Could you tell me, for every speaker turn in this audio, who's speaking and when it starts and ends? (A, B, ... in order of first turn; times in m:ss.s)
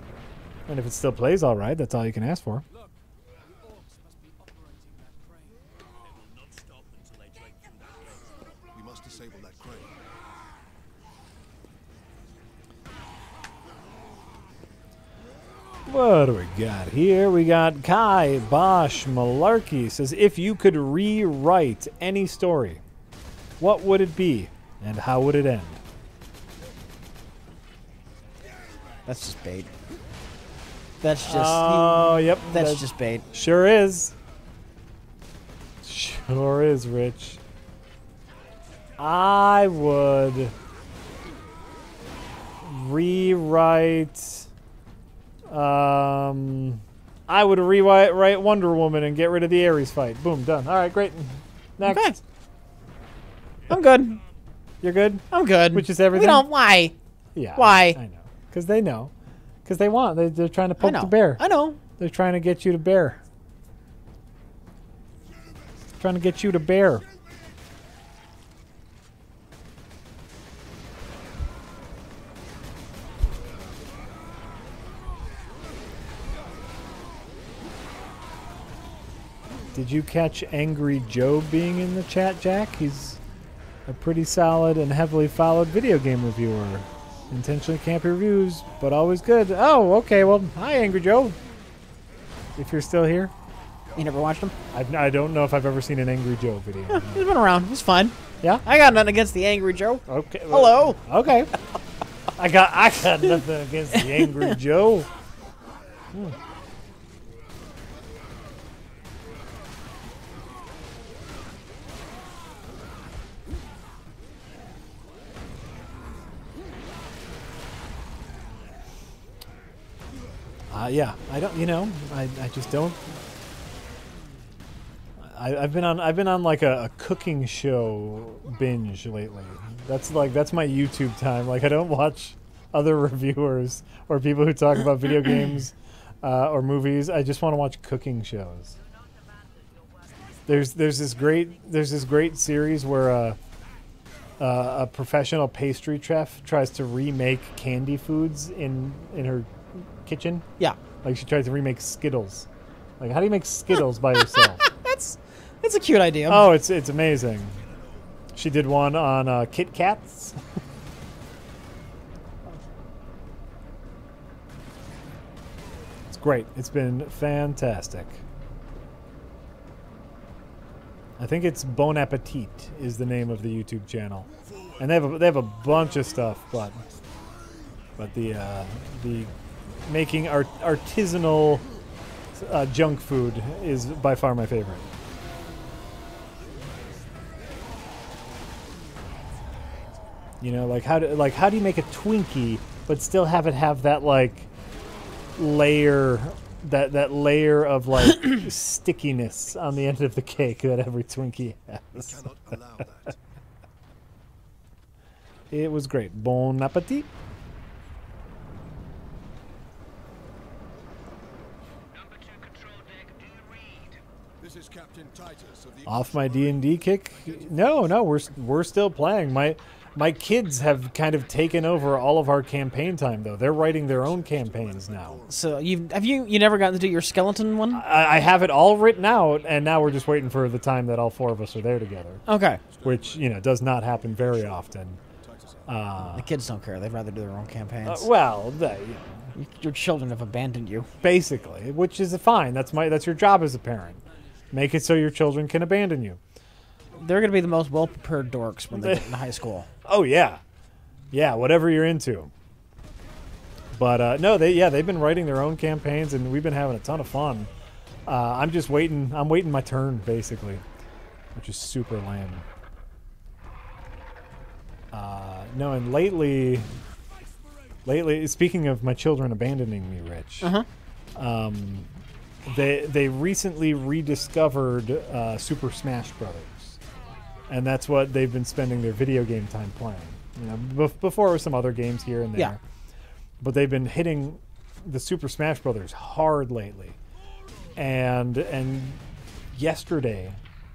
0:00.7-0:02.6 A
0:02.7-0:03.0 B
0:03.5-0:05.7 B
0:06.0-0:08.4 C
0:08.7-0:10.0 D
0:15.9-0:22.8 A
0:23.6-0:25.8 A
0:29.1-0:29.7 E
0:31.0-0:33.3 E
0:31.2-0:34.1 A
0:35.8-0:37.4 A
0:39.0-0:40.5 A
0:42.6-0:44.5 A
0:45.5-0:52.2 A
0:51.8-0:52.2 E
0:53.7-0:54.2 E
0:54.8-0:56.5 A
0:55.3-0:57.0 E
0:57.4-0:59.1 A
0:57.6-0:58.0 E
0:59.6-1:01.4 A
1:00.8-1:01.8 E
1:01.9-1:03.2 A
1:06.0-1:07.0 A
1:19.7-1:23.2 A
1:23.9-1:31.4 A
1:32.6-1:33.3 A
1:34.0-1:34.6 E
1:34.7-1:37.3 A
1:36.9-1:41.0 E
1:40.1-1:41.6 A
1:42.4-1:45.1 A
1:44.0-1:44.5 E
2:00.7-2:03.2 A
2:05.2-2:18.8 A
2:19.4-2:20.4 F
2:20.5-2:23.4 A
2:24.4-2:30.5 A
2:31.0-2:32.5 A
2:33.0-2:34.6 A
2:34.2-2:36.5 E
2:36.3-2:37.6 A
2:38.3-2:40.4 A
2:46.1-2:48.2 A
2:51.2-2:54.3 A
2:54.4-2:54.9 D
2:54.8-2:56.8 A
2:55.6-2:56.8 D
2:58.0-2:59.3 A
2:59.8-3:01.6 A
3:02.4-3:04.9 A
3:10.4-3:14.5 A
3:15.4-3:22.2 A
3:21.9-3:23.2 D
3:25.5-3:27.1 A
3:31.9-3:34.0 F
3:34.4-3:38.2 D
3:35.9-3:45.2 A
3:43.3-3:45.6 D
3:45.3-3:47.8 E
3:47.7-3:52.2 A
3:52.3-3:52.6 E
3:52.6-3:55.9 D
3:52.8-3:55.0 A
3:55.7-3:56.3 A
3:56.1-3:58.1 E
3:57.8-3:59.3 A
3:59.4-4:00.9 E
4:01.0-4:06.2 A
4:07.0-4:09.7 E
4:08.7-4:09.1 A
4:09.8-4:10.4 A
4:11.1-4:12.3 A
4:13.7-4:17.5 A
4:18.1-4:20.6 A
4:21.4-4:22.4 A
4:24.9-4:26.7 A
4:27.8-4:30.5 A
4:30.4-4:30.7 E
4:31.2-4:31.9 A
4:32.4-4:36.8 A
4:37.5-4:42.6 A
4:43.4-4:47.0 A
4:47.8-4:49.0 A
4:49.5-4:50.4 A